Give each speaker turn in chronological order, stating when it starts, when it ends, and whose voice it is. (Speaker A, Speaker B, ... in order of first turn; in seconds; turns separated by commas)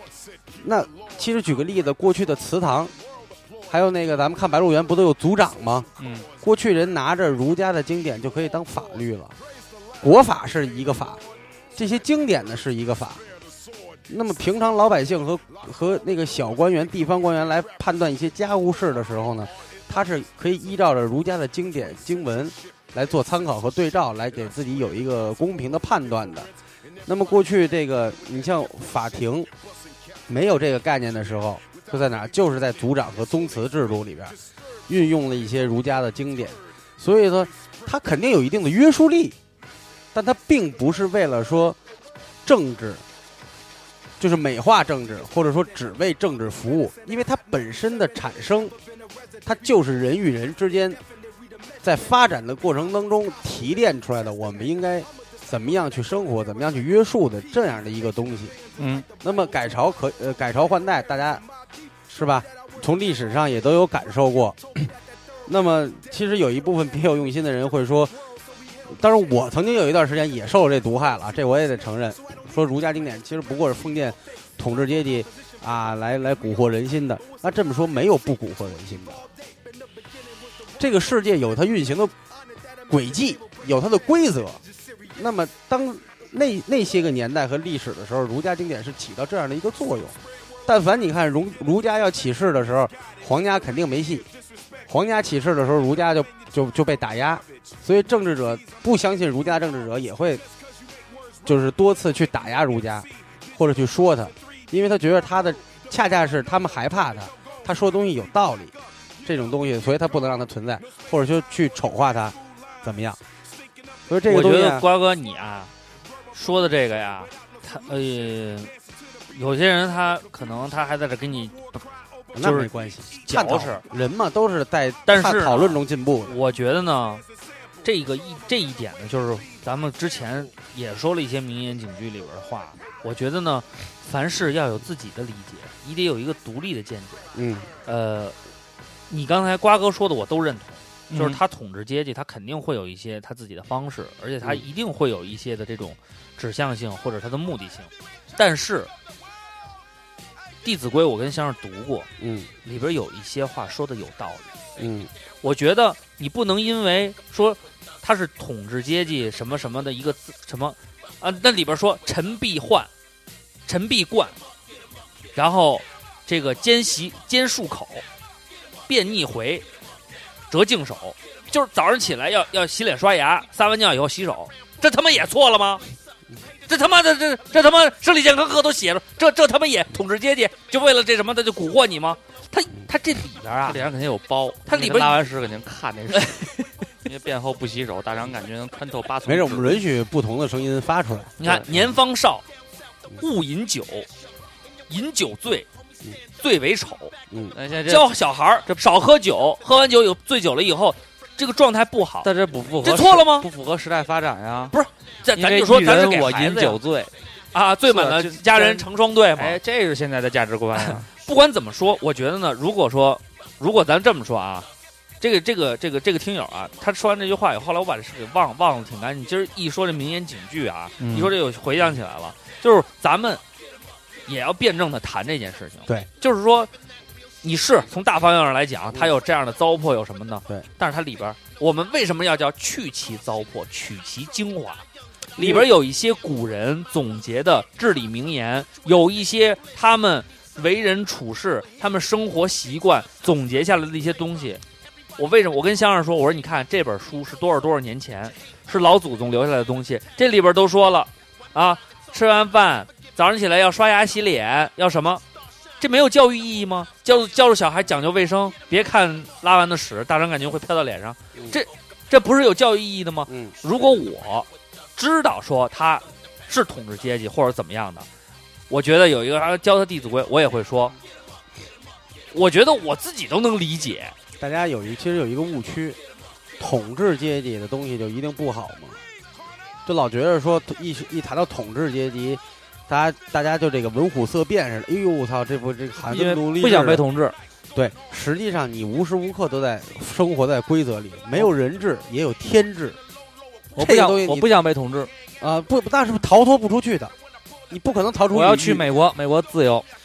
Speaker A: 0.6-2.9, Speaker A: 3.7-5.9, Speaker B: 6.0-6.3, Speaker A: 6.4-9.3, Speaker A: 10.0-11.2, Speaker A: 11.8-13.2, Speaker A: 14.1-26.5, Speaker A: 27.1-29.5, Speaker A: 30.3-34.4, Speaker A: 34.9-39.4, Speaker A: 40.1-41.8, Speaker A: 42.5-43.0, Speaker A: 44.2-48.8, Speaker A: 49.4-51.0, Speaker A: 51.8-58.6, Speaker B: 58.8-59.0, Speaker A: 59.2-61.5, Speaker A: 62.1-64.9, Speaker A: 65.5-68.1, Speaker A: 68.9-79.2, Speaker A: 80.8-82.1, Speaker A: 82.9-94.3, Speaker A: 94.9-100.4, Speaker A: 101.5-113.2, Speaker A: 114.1-114.9, Speaker C: 114.3-115.7, Speaker C: 116.3-118.7, Speaker C: 119.3-121.9, Speaker A: 122.3-126.4, Speaker C: 122.4-123.8, Speaker C: 125.1-127.2, Speaker C: 127.8-137.3, Speaker A: 137.3-137.7, Speaker C: 137.9-138.4, Speaker C: 139.1-148.9, Speaker B: 141.1-141.4, Speaker C: 150.6-152.1, Speaker A: 152.2-152.5, Speaker C: 152.7-154.5, Speaker A: 154.8-155.1, Speaker C: 155.4-162.9, Speaker C: 163.7-164.4, Speaker C: 165.3-168.0, Speaker C: 168.9-169.7, Speaker C: 170.5-175.8, Speaker C: 176.7-183.9, Speaker B: 183.7-186.5, Speaker C: 184.7-185.2, Speaker C: 186.2-186.5, Speaker B: 187.0-189.8, Speaker A: 189.2-191.9, Speaker C: 191.4-192.4, Speaker C: 193.2-194.1, Speaker C: 194.9-195.7, Speaker C: 196.4-197.1, Speaker A: 197.3-197.6, Speaker B: 197.5-198.1, Speaker C: 197.8-203.5, Speaker B: 202.2-204.8, Speaker C: 204.7-206.8, Speaker B: 205.3-207.1, Speaker C: 207.5-209.6, Speaker B: 207.9-211.1, Speaker C: 210.8-214.7, Speaker C: 215.2-223.4, Speaker B: 221.0-221.3, Speaker C: 224.3-226.7, Speaker C: 227.4-234.8, Speaker A: 235.4-235.7, Speaker C: 235.4-244.6, Speaker C: 245.2-255.2, Speaker C: 255.8-268.1, Speaker A: 263.3-263.6, Speaker C: 268.7-270.9, Speaker C: 272.3-274.2, Speaker A: 274.4-276.0, Speaker A: 276.6-279.0, Speaker A: 279.9-287.1, Speaker B: 286.1-287.4, Speaker A: 287.7-293.0, Speaker B: 293.8-295.1, Speaker A: 293.8-294.5, Speaker A: 295.4-297.1, Speaker A: 297.7-298.9, Speaker B: 298.3-299.9